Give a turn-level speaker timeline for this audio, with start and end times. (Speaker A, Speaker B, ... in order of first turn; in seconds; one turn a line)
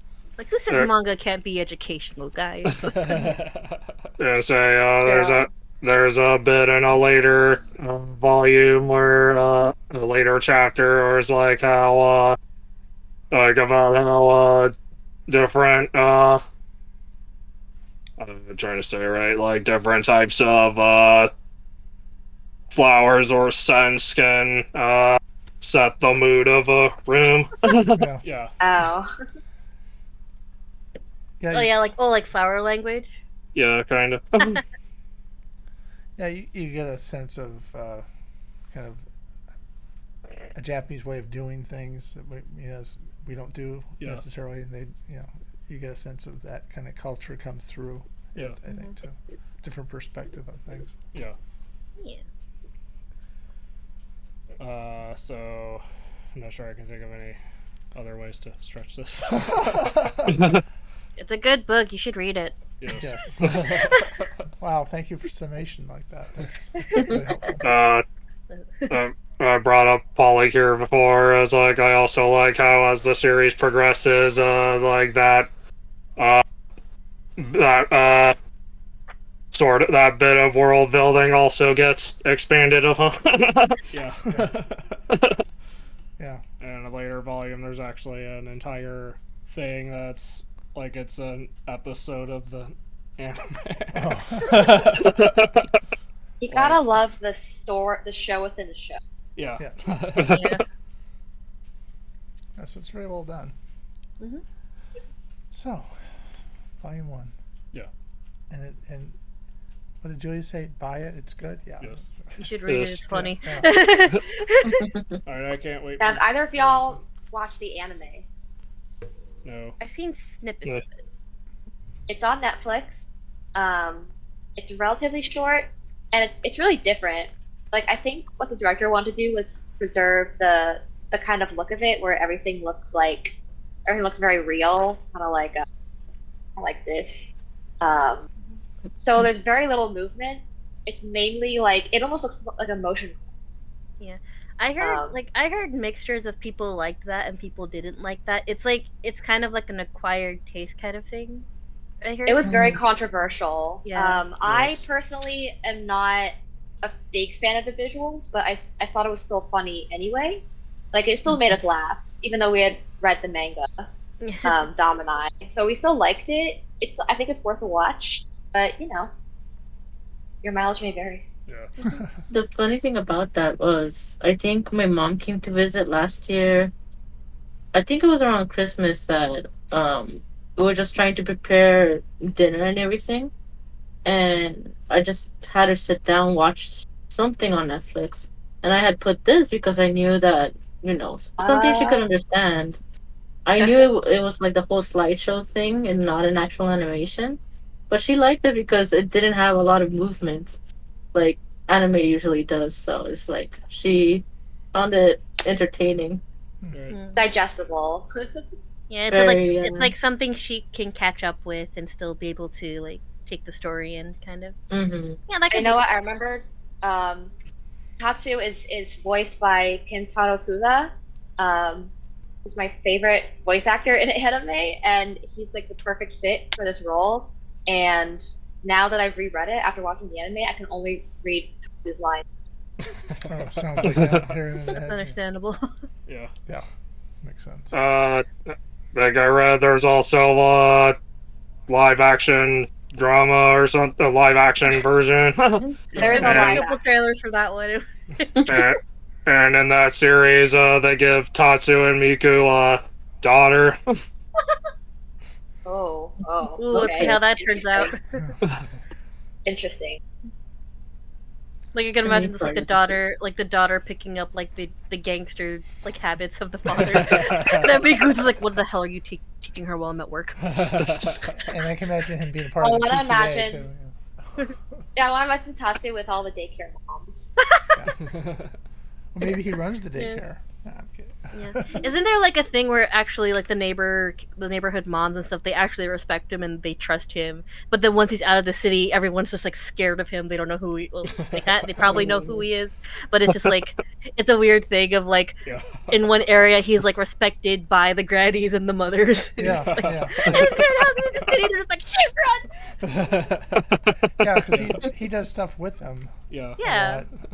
Speaker A: 0.4-3.2
Speaker B: 2.8-4.1
Speaker C: 4.2-12.4
Speaker D: 5.0-5.5
Speaker C: 13.3-14.7
Speaker C: 15.3-16.4
Speaker C: 18.2-21.3
Speaker C: 22.7-28.1
Speaker E: 27.9-28.2
Speaker B: 28.2-28.5
Speaker D: 28.6-29.1
Speaker E: 31.4-31.7
Speaker A: 31.5-33.1
Speaker C: 33.5-34.6
Speaker E: 36.2-38.0
Speaker E: 38.7-39.1
Speaker E: 40.5-51.0
Speaker A: 52.0-52.2
Speaker B: 54.6-55.8
Speaker B: 56.3-57.4
Speaker B: 57.9-60.1
Speaker E: 59.4-60.4
Speaker C: 60.3-60.6
Speaker A: 61.2-62.6
Speaker B: 62.8-64.3
Speaker E: 63.0-63.5
Speaker E: 64.6-67.7
Speaker C: 67.6-68.0
Speaker A: 68.5-69.0
Speaker C: 68.9-75.5
Speaker C: 76.2-76.4
Speaker C: 77.4-78.3
Speaker C: 79.5-83.8
Speaker B: 83.9-85.0
Speaker C: 85.1-85.4
Speaker E: 86.2-86.4
Speaker B: 86.6-95.3
Speaker E: 93.9-94.9
Speaker C: 95.0-95.7
Speaker D: 96.4-99.0
Speaker B: 96.5-96.8
Speaker B: 99.3-100.5
Speaker C: 100.2-100.5
Speaker A: 100.3-100.6
Speaker E: 102.5-103.5
Speaker E: 105.5-106.0
Speaker E: 106.8-107.3
Speaker E: 108.5-109.2
Speaker E: 110.0-112.5
Speaker A: 112.4-114.8
Speaker C: 112.7-113.0
Speaker E: 113.1-113.8
Speaker B: 115.2-117.0
Speaker D: 116.0-118.2
Speaker B: 119.4-119.8
Speaker A: 119.8-121.0
Speaker D: 122.1-122.9
Speaker D: 123.5-135.7
Speaker D: 136.6-138.3
Speaker D: 139.0-143.2
Speaker A: 144.0-151.4
Speaker D: 144.8-145.1
Speaker A: 152.0-152.4
Speaker D: 152.2-163.9
Speaker F: 152.4-152.8
Speaker A: 153.8-154.2
Speaker B: 154.4-154.8
Speaker A: 164.2-164.6
Speaker D: 164.4-169.1
Speaker D: 170.4-171.2
Speaker B: 171.5-171.7
Speaker F: 172.3-176.7
Speaker F: 177.7-183.3
Speaker F: 184.0-192.8
Speaker D: 191.4-192.0
Speaker F: 193.4-197.4
Speaker F: 197.9-200.5
Speaker F: 201.1-206.2
Speaker B: 206.7-207.0
Speaker A: 206.9-207.2
Speaker D: 207.2-208.1
Speaker A: 208.9-214.6
Speaker F: 209.1-209.9
Speaker F: 214.7-215.2
Speaker A: 215.3-215.8
Speaker D: 215.5-217.3
Speaker D: 218.0-221.9
Speaker D: 222.4-232.4
Speaker B: 233.1-234.2
Speaker E: 233.2-235.2
Speaker A: 234.7-235.7
Speaker B: 236.1-236.3
Speaker E: 237.2-237.7
Speaker C: 237.7-241.0
Speaker C: 241.7-246.6
Speaker B: 245.9-246.6
Speaker D: 245.9-246.8
Speaker A: 246.0-248.5
Speaker C: 248.5-253.8
Speaker D: 255.6-257.9
Speaker A: 256.6-258.2
Speaker F: 256.7-257.2
Speaker E: 258.2-258.6
Speaker D: 259.4-260.0
Speaker A: 261.7-270.6
Speaker F: 262.0-262.9
Speaker B: 266.7-267.7
Speaker B: 270.4-271.3
Speaker E: 271.4-274.5
Speaker D: 272.6-273.6
Speaker D: 274.9-277.3
Speaker E: 277.7-278.1
Speaker B: 278.0-278.5
Speaker E: 279.1-281.8
Speaker A: 279.9-280.2
Speaker A: 281.3-302.5
Speaker B: 291.2-292.1
Speaker B: 295.4-295.9
Speaker E: 299.4-300.7
Speaker B: 299.4-300.6
Speaker B: 302.8-303.9
Speaker E: 304.2-307.1
Speaker B: 306.3-306.6
Speaker A: 306.6-307.0